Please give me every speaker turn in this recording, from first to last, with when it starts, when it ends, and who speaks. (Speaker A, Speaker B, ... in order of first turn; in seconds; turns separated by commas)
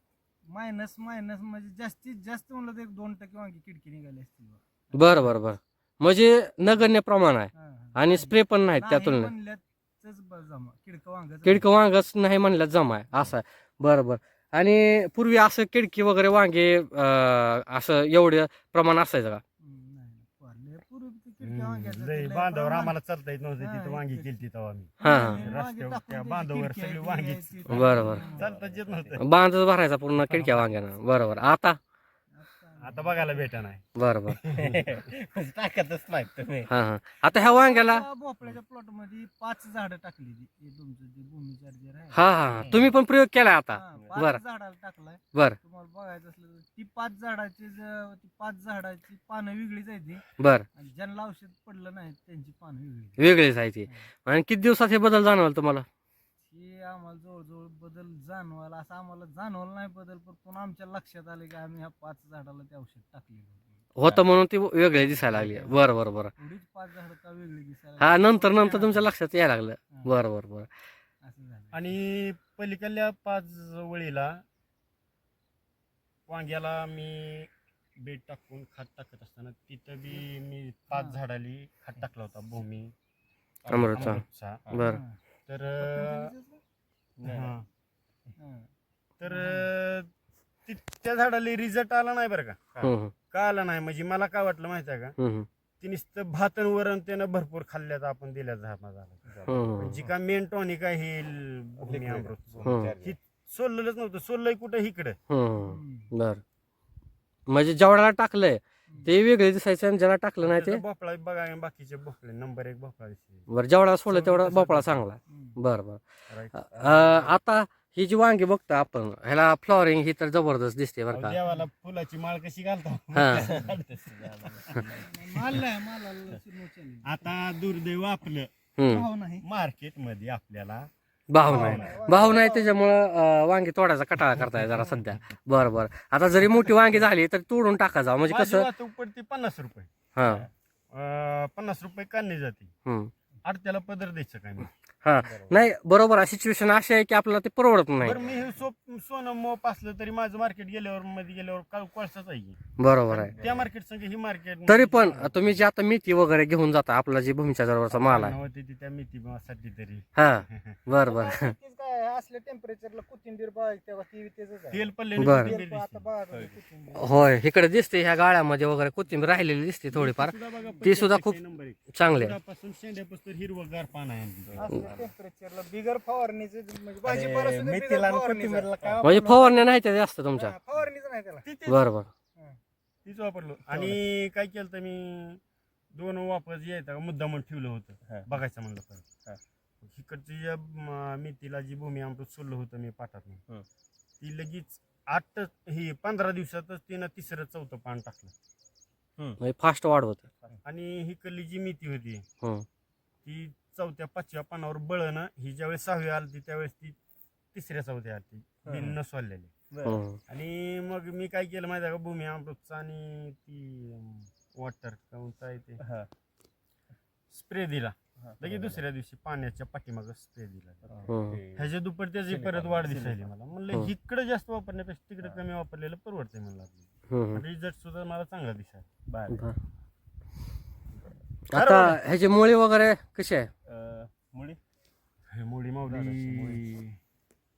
Speaker A: 0.5-5.3, Speaker B: 5.0-9.3, Speaker A: 7.5-11.6, Speaker B: 11.4-19.4, Speaker A: 19.6-22.9, Speaker C: 21.4-29.2, Speaker A: 23.6-24.3, Speaker A: 25.0-28.5, Speaker B: 25.0-25.4, Speaker B: 27.7-28.2, Speaker D: 28.0-29.2, Speaker B: 29.2-31.8, Speaker C: 30.3-30.7, Speaker A: 32.4-33.4, Speaker C: 32.8-34.8, Speaker B: 34.0-34.4, Speaker D: 34.5-36.7, Speaker B: 36.7-38.0, Speaker A: 37.3-42.2, Speaker B: 42.1-44.4, Speaker D: 42.6-42.9, Speaker A: 43.7-53.2, Speaker B: 50.4-50.6, Speaker B: 53.2-55.9, Speaker A: 56.5-63.8, Speaker B: 64.0-66.3, Speaker D: 64.0-64.3, Speaker A: 65.3-65.8, Speaker A: 66.4-69.1, Speaker B: 68.0-70.7, Speaker A: 71.2-71.8, Speaker C: 71.7-74.4, Speaker C: 76.3-82.9, Speaker D: 83.7-84.8, Speaker B: 83.7-85.0, Speaker C: 83.9-84.7, Speaker A: 84.8-85.2, Speaker C: 85.5-86.3, Speaker A: 85.8-86.6, Speaker D: 87.2-87.5, Speaker C: 87.2-87.7, Speaker A: 88.4-88.7, Speaker C: 89.2-90.1, Speaker A: 89.3-89.7, Speaker C: 90.7-92.6, Speaker B: 92.8-93.1, Speaker C: 93.3-95.2, Speaker B: 95.2-95.5, Speaker C: 95.8-99.2, Speaker D: 99.3-100.1, Speaker B: 99.5-100.0, Speaker C: 99.8-105.2, Speaker D: 101.8-103.2, Speaker B: 102.7-102.9, Speaker B: 105.3-106.4, Speaker A: 105.6-106.1, Speaker B: 107.5-110.8, Speaker C: 110.4-113.5, Speaker B: 113.5-116.0, Speaker C: 114.1-115.0, Speaker A: 115.3-115.6, Speaker C: 116.3-117.3, Speaker B: 116.6-121.4, Speaker C: 121.1-125.6, Speaker B: 123.2-123.5, Speaker D: 123.3-125.0, Speaker A: 124.9-127.1, Speaker C: 127.0-128.5, Speaker B: 128.8-129.1, Speaker A: 128.9-129.4, Speaker C: 129.4-130.9, Speaker B: 131.3-138.7, Speaker C: 131.4-132.4, Speaker A: 131.4-132.8, Speaker C: 134.5-134.9, Speaker C: 138.3-139.9, Speaker B: 140.2-140.5, Speaker C: 140.9-142.7, Speaker C: 143.4-144.7, Speaker B: 145.0-148.2, Speaker D: 145.3-145.6, Speaker C: 148.0-152.6, Speaker D: 148.2-148.5, Speaker B: 152.8-153.3, Speaker C: 153.1-155.6, Speaker D: 153.3-153.7, Speaker B: 154.7-158.4, Speaker C: 157.9-160.8, Speaker B: 160.2-161.5, Speaker A: 161.0-167.1, Speaker C: 164.7-166.1, Speaker B: 165.2-165.6, Speaker D: 166.3-166.6, Speaker B: 167.0-171.4, Speaker C: 169.9-174.7, Speaker B: 171.9-172.4, Speaker D: 174.5-175.1, Speaker A: 174.6-179.7, Speaker D: 177.0-179.1, Speaker B: 179.0-180.5, Speaker A: 180.3-181.5, Speaker C: 181.4-181.9, Speaker B: 181.7-182.1, Speaker C: 183.1-185.4, Speaker D: 183.7-184.0, Speaker C: 185.9-189.1, Speaker C: 189.8-193.4, Speaker C: 194.2-198.3, Speaker B: 199.4-200.2, Speaker C: 200.7-202.2, Speaker C: 203.2-207.0, Speaker C: 207.5-209.5, Speaker D: 208.7-209.0, Speaker D: 209.7-210.0, Speaker B: 209.8-210.2, Speaker C: 210.3-215.8, Speaker D: 215.8-216.1, Speaker C: 217.3-228.9, Speaker D: 218.2-218.8, Speaker D: 220.9-221.7, Speaker B: 221.1-221.4, Speaker D: 222.3-223.3, Speaker B: 227.1-227.4, Speaker D: 229.1-229.5, Speaker B: 229.3-229.6, Speaker B: 231.5-233.5, Speaker C: 231.6-232.0, Speaker D: 233.7-234.6, Speaker C: 235.3-236.7, Speaker D: 235.8-237.0